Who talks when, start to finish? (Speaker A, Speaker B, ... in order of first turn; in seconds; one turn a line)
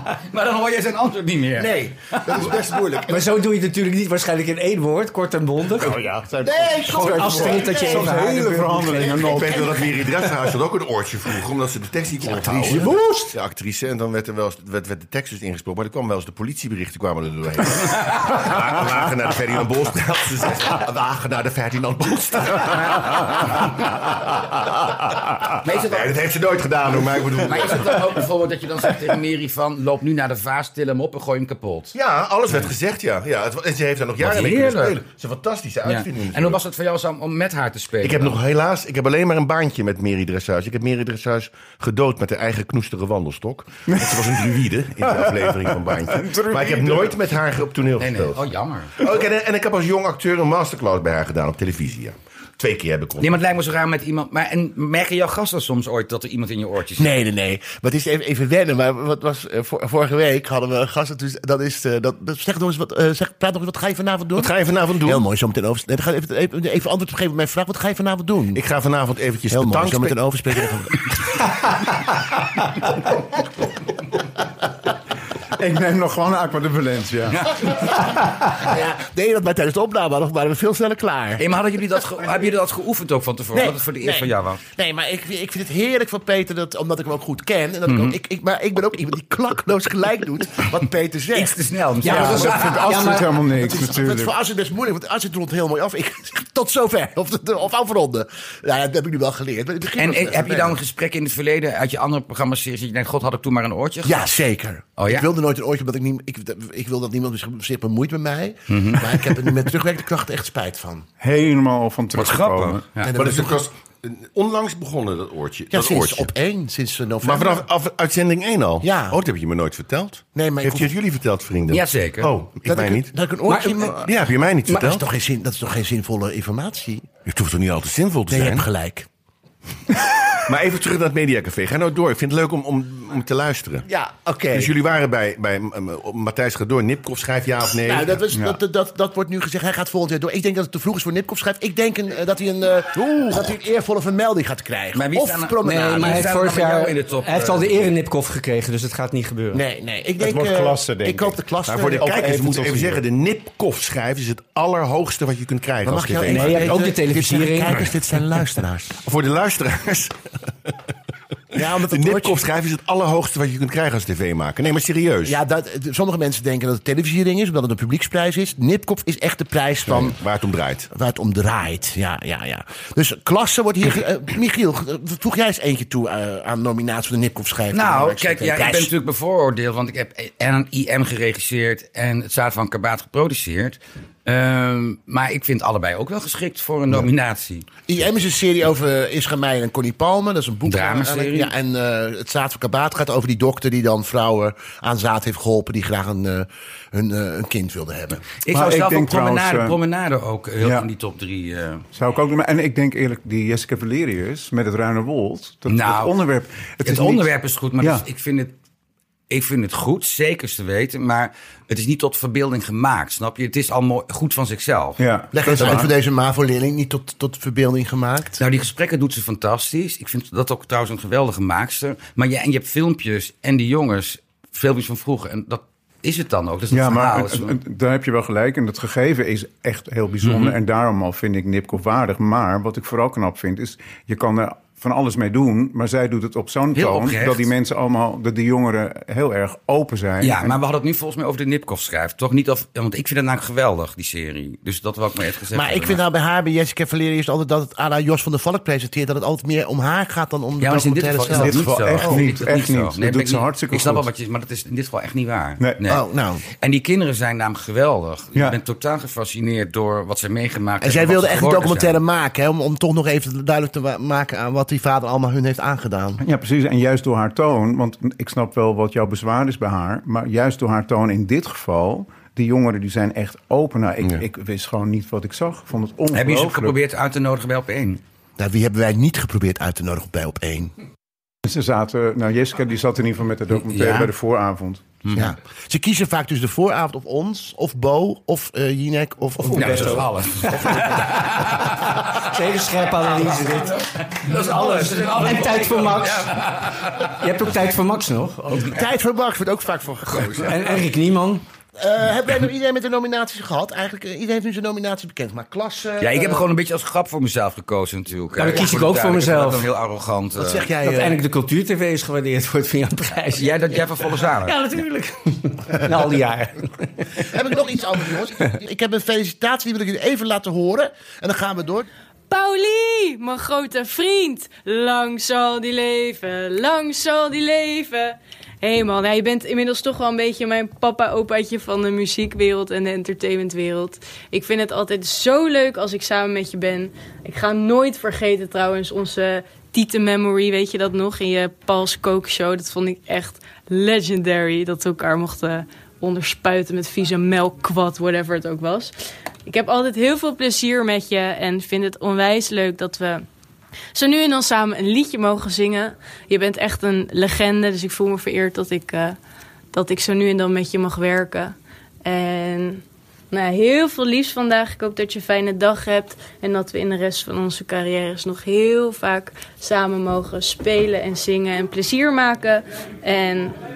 Speaker A: 0.3-2.4
Speaker B: 1.6-3.2
Speaker C: 2.3-2.8
Speaker D: 3.1-6.1
Speaker E: 5.8-9.8
Speaker B: 6.4-8.2
Speaker D: 6.8-9.3
Speaker B: 9.0-9.8
Speaker C: 9.2-23.3
Speaker B: 12.2-13.2
Speaker D: 12.8-13.3
Speaker A: 25.6-26.1
Speaker C: 25.6-28.2
Speaker A: 27.4-31.9
Speaker C: 31.9-36.6
Speaker A: 34.2-35.0
Speaker A: 35.8-38.4
Speaker C: 38.0-48.4
Speaker E: 43.9-44.4
Speaker E: 45.1-47.2
Speaker A: 48.0-48.9
Speaker C: 49.0-53.3
Speaker A: 53.2-57.2
Speaker B: 57.0-68.6
Speaker C: 64.4-65.2
Speaker C: 68.5-70.1
Speaker B: 69.5-71.0
Speaker E: 75.5-77.5
Speaker B: 78.6-81.5
Speaker A: 81.4-84.6
Speaker B: 83.5-100.8
Speaker A: 87.9-88.2
Speaker A: 91.3-93.1
Speaker D: 92.0-93.3
Speaker E: 92.0-94.3
Speaker A: 100.0-104.3
Speaker B: 104.0-111.0
Speaker A: 105.0-105.3
Speaker A: 108.7-109.2
Speaker E: 111.2-112.9
Speaker A: 112.1-113.1
Speaker B: 113.0-113.6
Speaker C: 113.1-116.3
Speaker B: 115.7-117.6
Speaker C: 117.2-123.1
Speaker B: 118.8-119.2
Speaker B: 120.3-120.9
Speaker A: 121.7-122.3
Speaker B: 122.7-124.1
Speaker D: 123.5-123.9
Speaker C: 124.0-125.0
Speaker B: 124.7-127.1
Speaker C: 127.2-128.7
Speaker B: 128.3-129.1
Speaker C: 130.4-133.8
Speaker B: 133.8-134.7
Speaker C: 134.5-138.2
Speaker B: 137.8-146.3
Speaker E: 138.3-138.6
Speaker C: 143.0-143.4
Speaker A: 144.9-147.9
Speaker D: 145.6-149.6
Speaker B: 149.5-152.2
Speaker E: 150.2-153.0
Speaker C: 151.7-156.8
Speaker B: 155.8-159.0
Speaker D: 156.2-157.8
Speaker C: 159.0-160.7
Speaker B: 161.5-162.4
Speaker C: 161.6-165.4
Speaker B: 165.2-170.2
Speaker C: 169.8-170.9
Speaker B: 170.9-178.9
Speaker A: 177.7-187.7
Speaker B: 187.9-198.2
Speaker A: 190.7-191.5
Speaker A: 198.4-201.8
Speaker E: 198.5-199.8
Speaker E: 200.6-200.9
Speaker E: 201.9-207.3
Speaker A: 205.7-206.1
Speaker A: 206.8-208.5
Speaker E: 207.8-208.0
Speaker A: 209.3-215.0
Speaker E: 215.0-215.9
Speaker B: 215.3-218.4
Speaker A: 218.4-227.6
Speaker E: 226.7-240.6
Speaker A: 230.2-230.6
Speaker A: 236.7-237.5
Speaker A: 240.2-246.0
Speaker B: 245.5-252.3
Speaker A: 250.6-256.0
Speaker E: 251.3-254.1
Speaker B: 255.8-256.4
Speaker A: 256.6-262.0
Speaker B: 260.8-266.2
Speaker E: 266.2-276.8
Speaker A: 276.1-278.0
Speaker B: 278.4-280.7
Speaker E: 281.4-285.0
Speaker A: 283.5-284.1
Speaker A: 285.0-285.3
Speaker B: 285.1-290.1
Speaker D: 289.4-298.7
Speaker A: 289.5-292.0
Speaker B: 290.6-290.9
Speaker A: 293.1-297.1
Speaker B: 298.6-300.6
Speaker D: 300.4-301.4
Speaker B: 301.8-306.5
Speaker A: 306.0-310.7
Speaker D: 308.4-309.7
Speaker B: 310.4-311.2
Speaker D: 310.8-316.9
Speaker A: 313.3-314.6
Speaker B: 317.2-321.9
Speaker F: 322.3-348.9
Speaker F: 349.4-353.2
Speaker F: 353.9-359.2
Speaker F: 359.7-373.6